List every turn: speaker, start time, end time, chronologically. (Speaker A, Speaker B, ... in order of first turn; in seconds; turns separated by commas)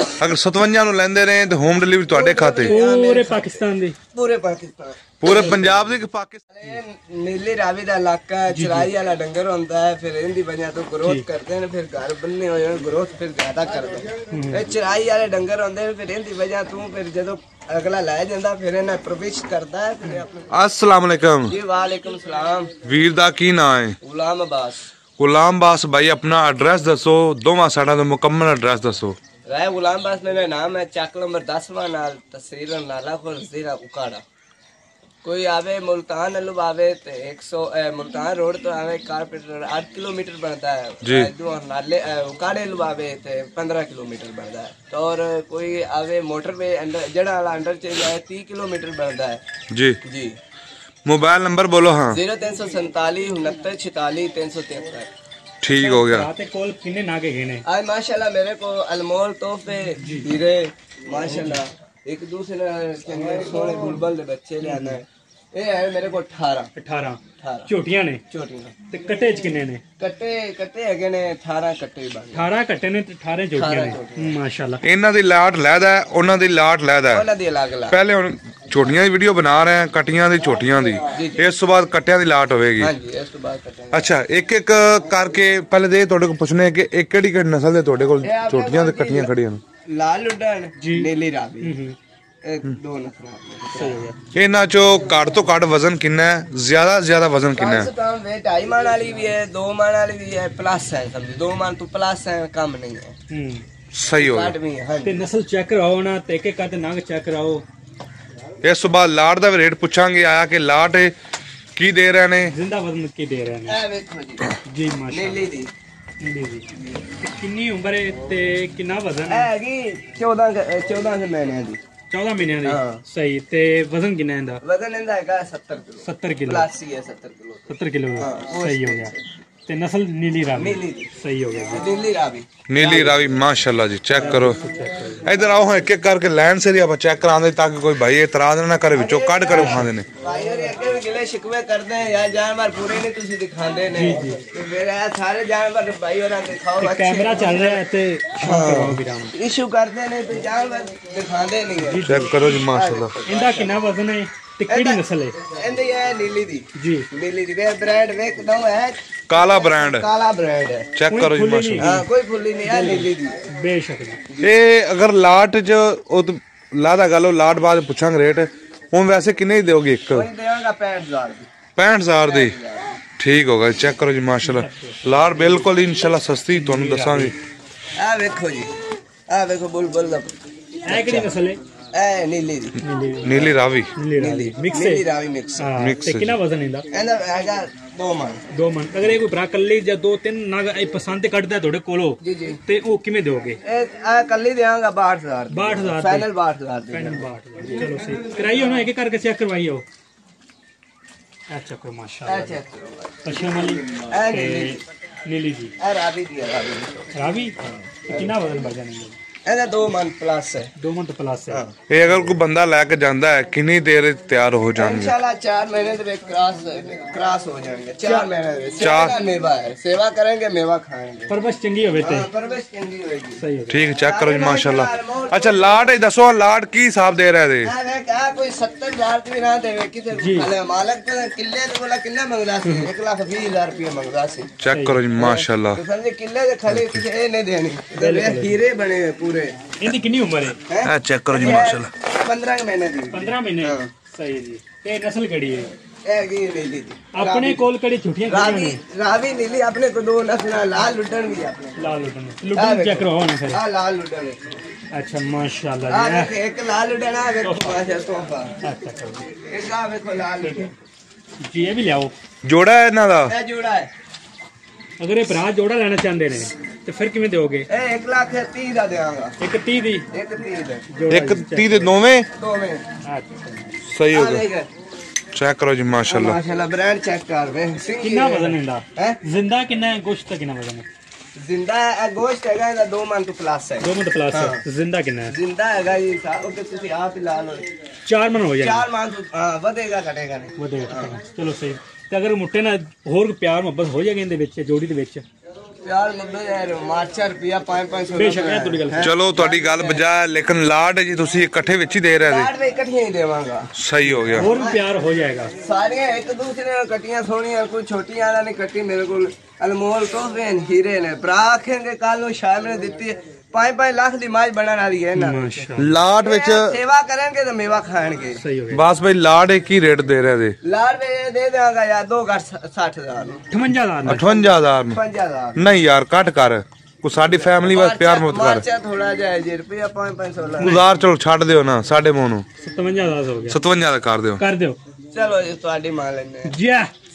Speaker A: 0.2-2.7, Speaker B: 2.1-3.6, Speaker C: 2.7-4.0, Speaker B: 4.1-5.7, Speaker A: 5.2-6.5, Speaker B: 6.5-20.5, Speaker C: 8.5-8.9, Speaker C: 14.3-14.7, Speaker A: 20.5-21.6, Speaker B: 21.5-22.7, Speaker A: 22.8-24.0, Speaker B: 24.0-24.9, Speaker A: 25.2-29.2, Speaker B: 29.5-34.2, Speaker B: 35.2-49.4, Speaker A: 41.0-41.3, Speaker A: 49.7-50.0, Speaker B: 50.0-50.4, Speaker A: 51.0-52.2, Speaker B: 52.1-55.1, Speaker A: 55.6-56.3, Speaker C: 55.8-57.6, Speaker B: 57.7-66.7, Speaker C: 60.0-60.3, Speaker C: 61.3-61.6, Speaker C: 64.6-65.0, Speaker C: 66.8-68.2, Speaker B: 67.4-67.7, Speaker B: 68.3-68.8, Speaker C: 68.9-69.8, Speaker B: 70.0-72.5, Speaker C: 72.3-74.8, Speaker B: 73.5-74.3, Speaker A: 74.8-77.3, Speaker B: 77.1-78.0, Speaker A: 77.9-82.9, Speaker B: 81.1-81.4, Speaker B: 82.8-84.1, Speaker A: 83.9-89.6, Speaker B: 88.2-89.3, Speaker B: 89.9-91.8, Speaker C: 90.8-91.1, Speaker C: 91.6-92.0, Speaker B: 92.4-94.1, Speaker C: 93.8-94.2, Speaker A: 94.3-97.9, Speaker B: 97.5-103.1, Speaker C: 103.3-103.7, Speaker A: 103.9-104.5, Speaker B: 104.2-105.2, Speaker C: 105.0-107.7, Speaker A: 108.6-111.1, Speaker A: 111.8-112.5, Speaker C: 112.5-113.8, Speaker B: 113.7-114.6, Speaker C: 114.7-115.5, Speaker B: 115.1-115.7, Speaker C: 116.2-116.7, Speaker C: 117.2-119.5, Speaker B: 119.3-121.8, Speaker C: 122.1-124.6, Speaker B: 122.6-123.0, Speaker B: 124.6-129.4, Speaker C: 126.0-126.7, Speaker C: 127.7-129.1, Speaker C: 129.7-131.8, Speaker B: 130.6-132.5, Speaker A: 132.7-134.6, Speaker C: 132.8-133.2, Speaker B: 134.2-134.5, Speaker C: 134.2-135.3, Speaker A: 135.2-140.1, Speaker B: 138.9-147.8, Speaker C: 139.5-139.9, Speaker C: 143.9-144.4, Speaker C: 146.8-149.3, Speaker B: 148.4-153.7, Speaker C: 151.8-152.5, Speaker A: 152.1-153.1, Speaker C: 153.3-155.4, Speaker B: 154.7-160.9, Speaker C: 156.8-157.1, Speaker A: 159.3-160.1, Speaker A: 160.9-162.0, Speaker C: 161.1-162.0, Speaker B: 161.8-163.4, Speaker C: 162.6-164.2, Speaker A: 164.4-170.3, Speaker B: 170.1-171.5, Speaker A: 171.8-172.5, Speaker B: 172.2-173.0, Speaker A: 173.2-177.3, Speaker C: 174.4-175.7, Speaker C: 176.5-177.4, Speaker B: 178.0-178.7, Speaker B: 179.3-180.4, Speaker B: 180.9-181.3, Speaker C: 180.9-181.6, Speaker B: 181.9-182.8, Speaker C: 182.8-185.1, Speaker A: 183.2-183.9, Speaker B: 184.2-185.7, Speaker C: 185.6-186.9, Speaker A: 185.8-186.4, Speaker B: 186.9-188.4, Speaker C: 188.5-193.6, Speaker B: 192.2-192.6, Speaker B: 193.6-197.2, Speaker C: 195.5-196.3, Speaker C: 196.9-199.8, Speaker C: 201.5-202.6, Speaker B: 202.3-203.3, Speaker C: 203.2-205.7, Speaker B: 203.9-204.8, Speaker B: 205.8-207.1, Speaker C: 207.1-209.2, Speaker B: 207.6-208.3, Speaker B: 209.4-210.7, Speaker C: 210.8-212.3, Speaker B: 211.5-211.7, Speaker A: 211.9-215.1, Speaker B: 214.8-221.3, Speaker A: 218.8-219.2, Speaker C: 221.3-222.3, Speaker B: 222.0-223.4, Speaker C: 223.4-223.9, Speaker A: 223.7-227.7, Speaker B: 224.0-225.9, Speaker B: 227.6-234.6, Speaker C: 230.1-230.5, Speaker A: 234.6-235.8, Speaker C: 234.7-235.0, Speaker B: 235.2-239.8, Speaker C: 237.9-238.6, Speaker C: 239.8-240.6, Speaker B: 240.7-243.9, Speaker A: 240.8-241.9, Speaker C: 243.1-245.7, Speaker B: 246.1-247.7, Speaker C: 247.1-248.8, Speaker B: 248.3-251.8, Speaker C: 251.8-253.6, Speaker B: 252.5-254.6, Speaker C: 254.9-256.3, Speaker B: 255.9-258.6, Speaker C: 257.4-257.8, Speaker C: 258.6-259.3, Speaker B: 259.3-260.7, Speaker C: 260.4-260.7, Speaker C: 261.4-262.1, Speaker A: 262.4-263.3, Speaker B: 263.3-263.9, Speaker C: 265.0-267.7, Speaker B: 267.7-269.4, Speaker C: 269.4-270.1, Speaker B: 270.1-270.9, Speaker C: 270.9-271.9, Speaker A: 271.1-272.3, Speaker B: 272.4-272.8, Speaker C: 273.1-273.7, Speaker A: 273.8-274.4, Speaker B: 274.1-274.7, Speaker A: 275.3-276.4, Speaker B: 276.1-279.2, Speaker C: 278.0-280.9, Speaker B: 281.4-284.6, Speaker C: 283.8-285.3, Speaker B: 285.3-287.7, Speaker C: 288.1-288.9, Speaker B: 288.6-291.1, Speaker C: 290.6-295.2, Speaker B: 295.8-300.0, Speaker C: 298.2-299.1, Speaker A: 299.0-302.5, Speaker B: 302.3-303.7, Speaker A: 303.8-304.5, Speaker C: 304.3-305.5, Speaker B: 304.4-304.8, Speaker B: 305.6-315.6, Speaker C: 315.2-315.9, Speaker A: 315.8-316.7, Speaker B: 316.2-318.4, Speaker C: 318.4-318.8, Speaker A: 318.7-320.6, Speaker B: 320.6-323.4, Speaker C: 323.5-324.3, Speaker A: 324.1-325.0, Speaker B: 324.1-325.6, Speaker A: 325.6-328.6, Speaker B: 327.7-330.8, Speaker C: 330.6-330.9, Speaker A: 330.6-332.4, Speaker C: 332.6-333.6, Speaker A: 333.5-334.4, Speaker C: 334.4-334.8, Speaker B: 335.1-336.5, Speaker C: 336.5-336.9